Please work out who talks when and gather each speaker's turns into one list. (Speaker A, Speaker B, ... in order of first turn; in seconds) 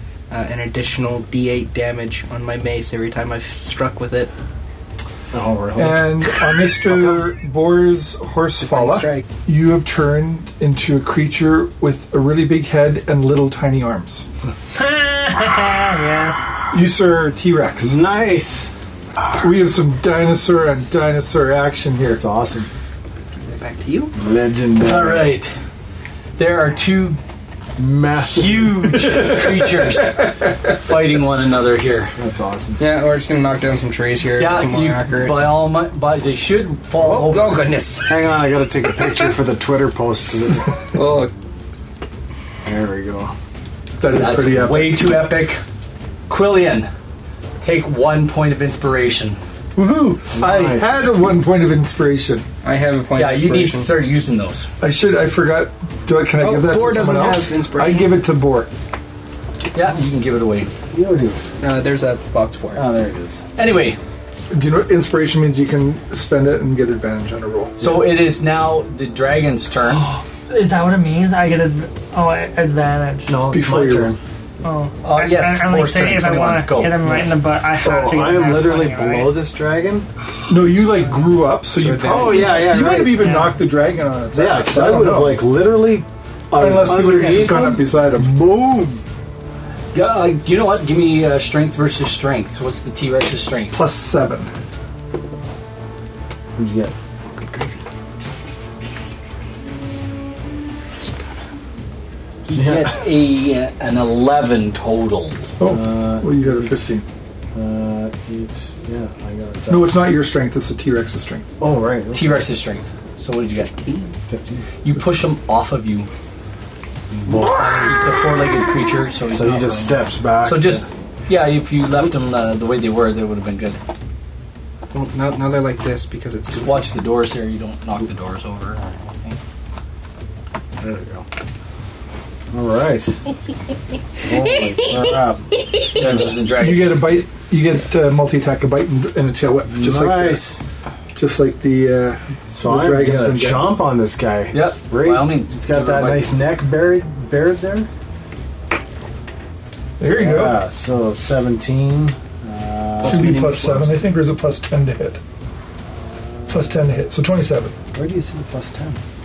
Speaker A: 0.3-4.3, 8.6-9.2, 23.4-24.1, 32.8-35.6, 37.0-38.2, 40.9-41.3, 52.6-53.9, 56.4-58.2, 61.6-62.9, 81.7-82.7, 86.8-87.7, 97.3-97.8, 101.0-101.3, 113.7-114.1, 124.9-126.9, 153.0-154.0
Speaker B: 5.3-6.3, 6.8-7.2, 17.8-18.7, 22.0-22.7, 24.1-25.3, 27.8-29.1, 32.2-32.8, 38.1-40.9, 42.6-43.4, 50.3-51.0, 60.9-61.4, 62.7-63.4, 73.3-74.2, 77.0-80.1, 82.0-83.4, 84.3-89.0, 96.6-96.9, 102.5-103.0, 105.6-106.9, 107.5-110.0, 111.6-112.5, 114.3-114.7, 117.1-118.1, 119.3-120.9, 130.8-131.2, 132.5-133.2, 134.2-136.3, 139.7-140.6, 142.5-147.9, 150.0-153.5, 157.9-159.0
Speaker C: 5.8-14.3, 16.7-18.0, 19.4-22.2, 29.1-30.2, 44.0-45.2, 49.8-52.5, 54.8-58.7, 64.5-68.0, 73.5-74.2, 80.5-85.5, 86.6-88.4, 93.7-94.5, 105.6-107.0, 109.7-111.5, 136.6-140.4, 141.2-143.7, 150.0-150.6, 153.1-155.2, 156.5-157.7
Speaker D: 14.7-16.6, 70.5-73.4, 74.6-79.4, 83.1-83.6
Speaker E: 24.8-25.6, 26.4-27.2, 28.3-32.1, 34.4-37.7, 44.1-45.6, 46.3-46.9, 47.6-49.4, 53.2-54.7, 59.7-60.7, 63.6-64.0, 67.8-70.1, 75.0-77.0, 89.9-93.8, 102.5-105.5, 112.1-113.7, 114.8-116.1, 117.5-123.8, 126.5-129.4, 135.9-137.2, 144.5-146.4